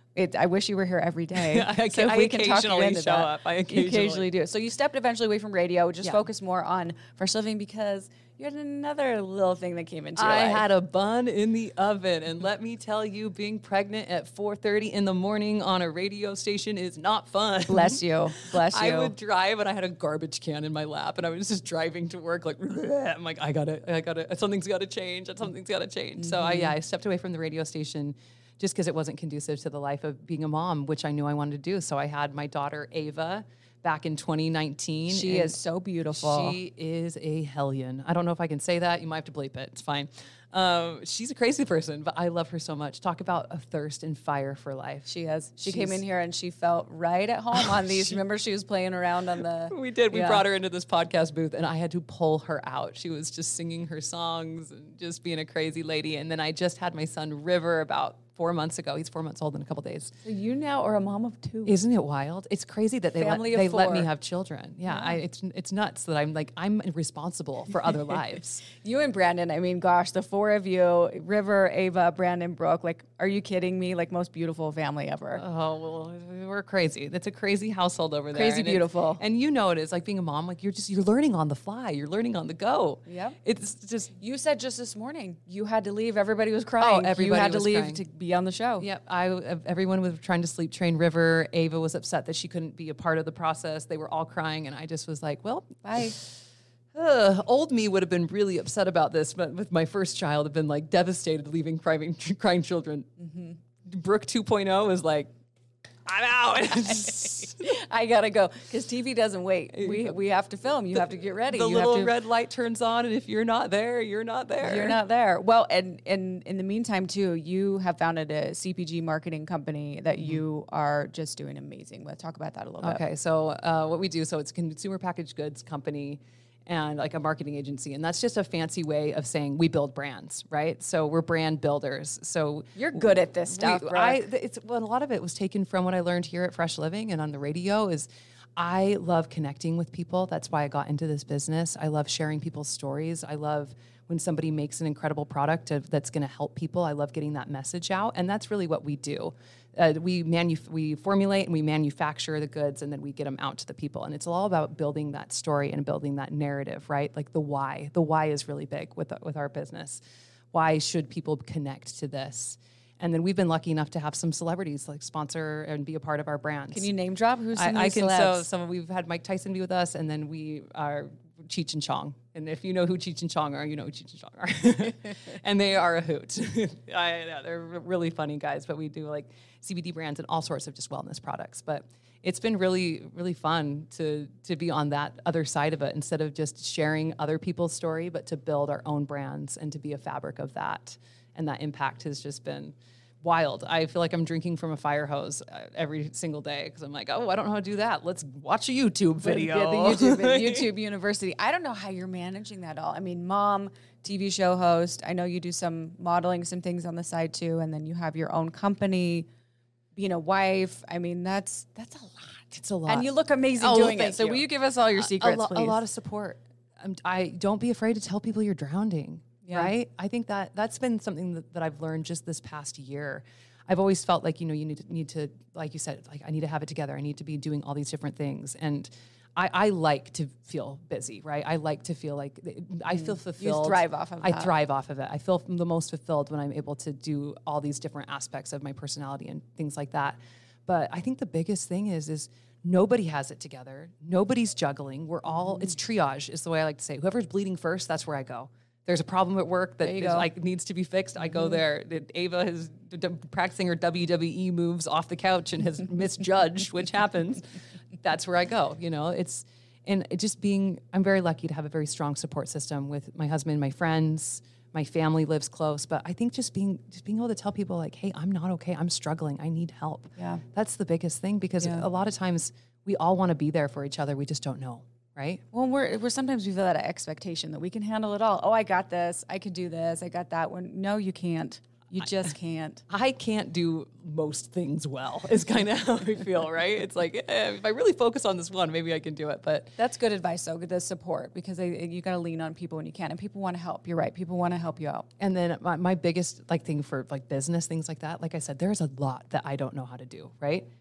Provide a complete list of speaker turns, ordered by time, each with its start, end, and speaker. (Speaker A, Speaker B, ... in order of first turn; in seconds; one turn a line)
Speaker A: 0.2-10.7
Speaker B: 1.4-4.3
Speaker B: 10.2-35.6
Speaker A: 17.7-19.1
Speaker A: 26.2-26.7
Speaker A: 35.1-36.6
Speaker B: 36.1-45.1
Speaker A: 45.1-50.4
Speaker B: 45.6-46.0
Speaker B: 47.5-48.2
Speaker B: 49.7-60.1
Speaker A: 60.2-61.8
Speaker B: 61.7-68.7
Speaker A: 63.1-64.1
Speaker A: 68.7-75.4
Speaker B: 75.3-84.1
Speaker A: 78.3-79.2
Speaker A: 83.1-83.4
Speaker A: 84.2-88.9
Speaker B: 86.8-88.0
Speaker B: 88.8-96.3
Speaker A: 95.8-96.2
Speaker B: 96.9-103.2
Speaker B: 103.8-105.3
Speaker B: 106.1-107.7
Speaker A: 107.1-112.1
Speaker B: 109.7-110.1
Speaker B: 111.0-115.0
Speaker A: 114.6-123.0
Speaker B: 122.8-160.0
Speaker A: 132.8-134.2
Speaker B: 160.5-166.9
Speaker A: 166.7-168.5
Speaker B: 167.6-200.7
Speaker A: 199.2-209.3
Speaker A: 209.9-215.8
Speaker B: 212.6-257.5
Speaker A: 219.4-219.7
Speaker A: 232.9-234.5
Speaker A: 249.8-250.3
Speaker B: 258.0-275.4
Speaker A: 275.5-282.8
Speaker B: 282.9-289.7
Speaker A: 289.8-295.1
Speaker B: 295.2-300.6